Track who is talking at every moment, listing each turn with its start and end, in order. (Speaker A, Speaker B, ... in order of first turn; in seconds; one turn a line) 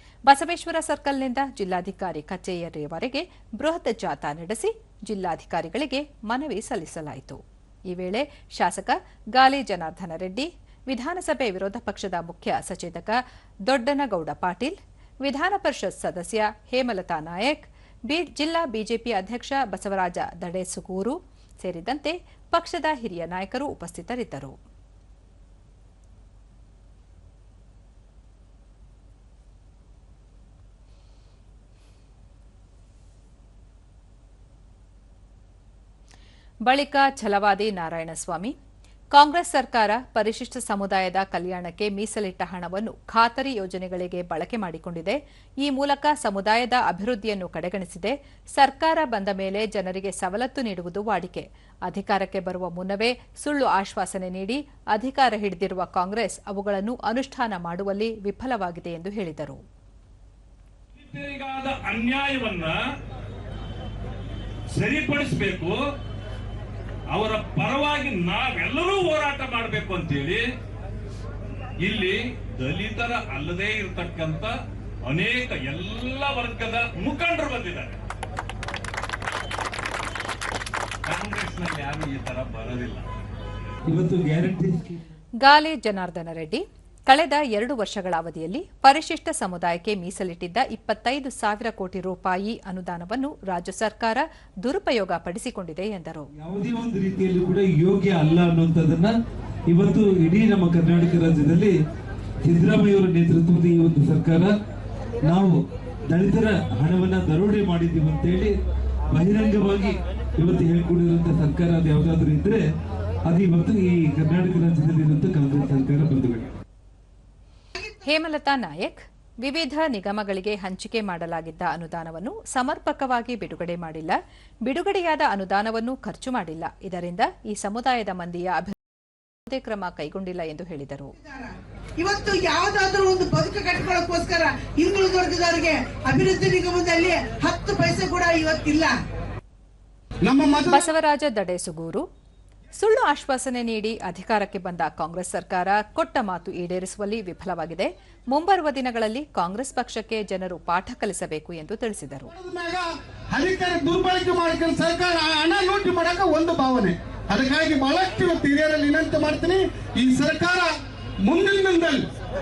Speaker A: 0.2-24.6
Speaker A: 36.6-38.5
Speaker A: 39.1-59.6
Speaker B: 61.0-62.8
Speaker B: 64.7-65.8
Speaker B: 67.1-70.4
Speaker B: 71.8-78.0
Speaker B: 81.0-83.1
Speaker C: 83.8-85.0
Speaker A: 85.4-96.3
Speaker C: 96.3-99.1
Speaker C: 99.7-101.7
Speaker C: 102.4-104.5
Speaker C: 105.2-108.5
Speaker C: 109.1-112.6
Speaker C: 113.2-116.5
Speaker A: 117.9-128.8
Speaker A: 129.4-131.1
Speaker D: 131.1-138.9
Speaker E: 140.2-140.9
Speaker A: 140.7-142.0
Speaker A: 142.8-152.3
Speaker E: 152.3-160.7
Speaker E: 161.2-162.0